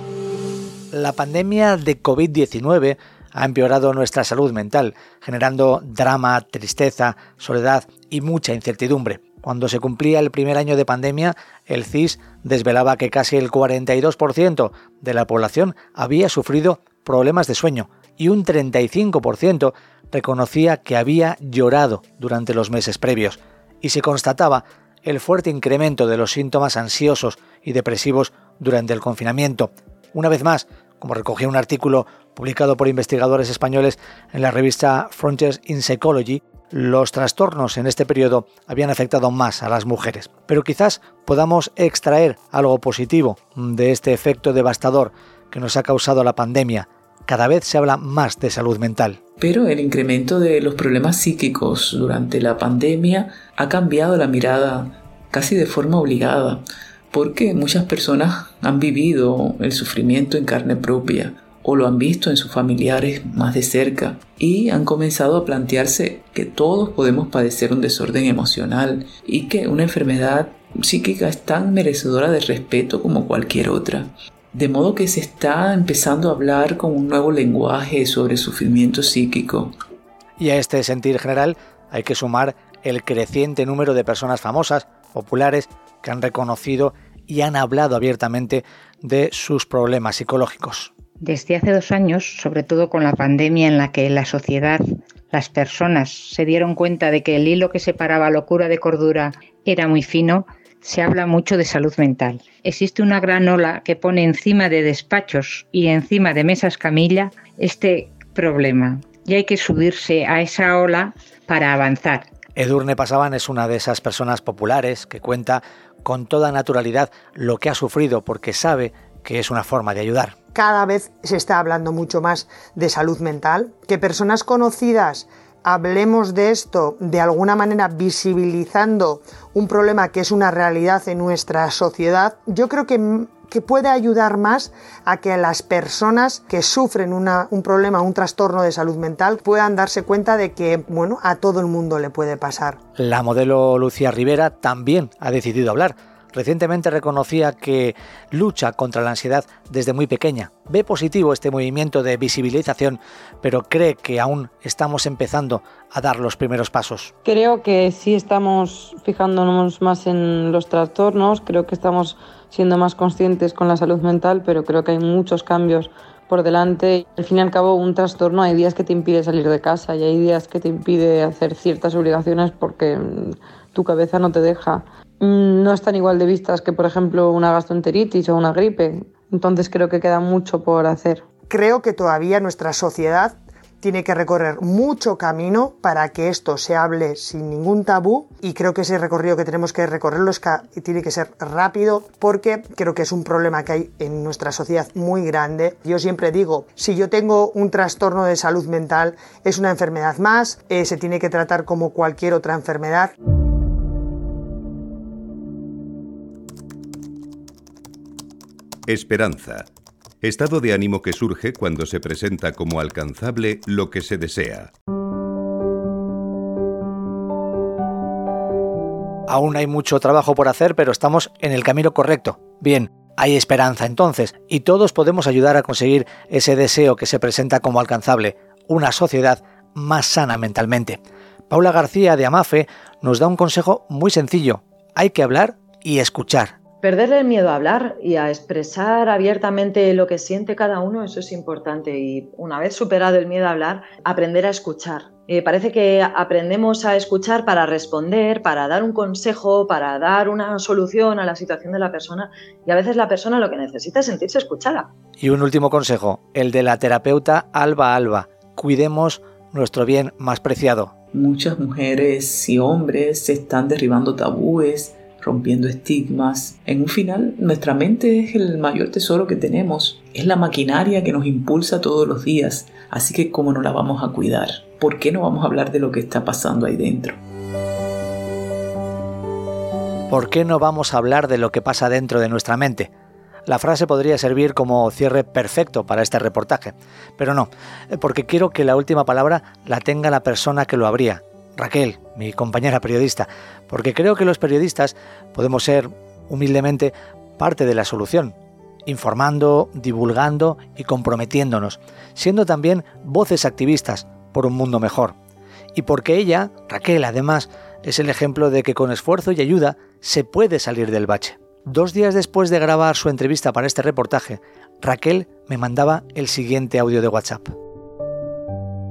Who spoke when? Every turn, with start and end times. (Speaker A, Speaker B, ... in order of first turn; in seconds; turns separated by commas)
Speaker A: 0.9-49.2, Speaker B: 49.4-79.7, Speaker A: 80.4-90.9, Speaker C: 91.2-112.3, Speaker A: 112.5-120.4, Speaker D: 120.5-142.8, Speaker A: 143.0-157.1, Speaker E: 157.2-181.2, Speaker D: 181.5-203.1, Speaker F: 208.9-209.7, Speaker F: 210.2-214.7, Speaker A: 219.3-236.5, Speaker G: 236.8-254.9, Speaker A: 255.2-260.9, Speaker B: 261.1-277.2, Speaker A: 280.1-282.9, Speaker A: 283.5-305.1, Speaker A: 305.7-317.5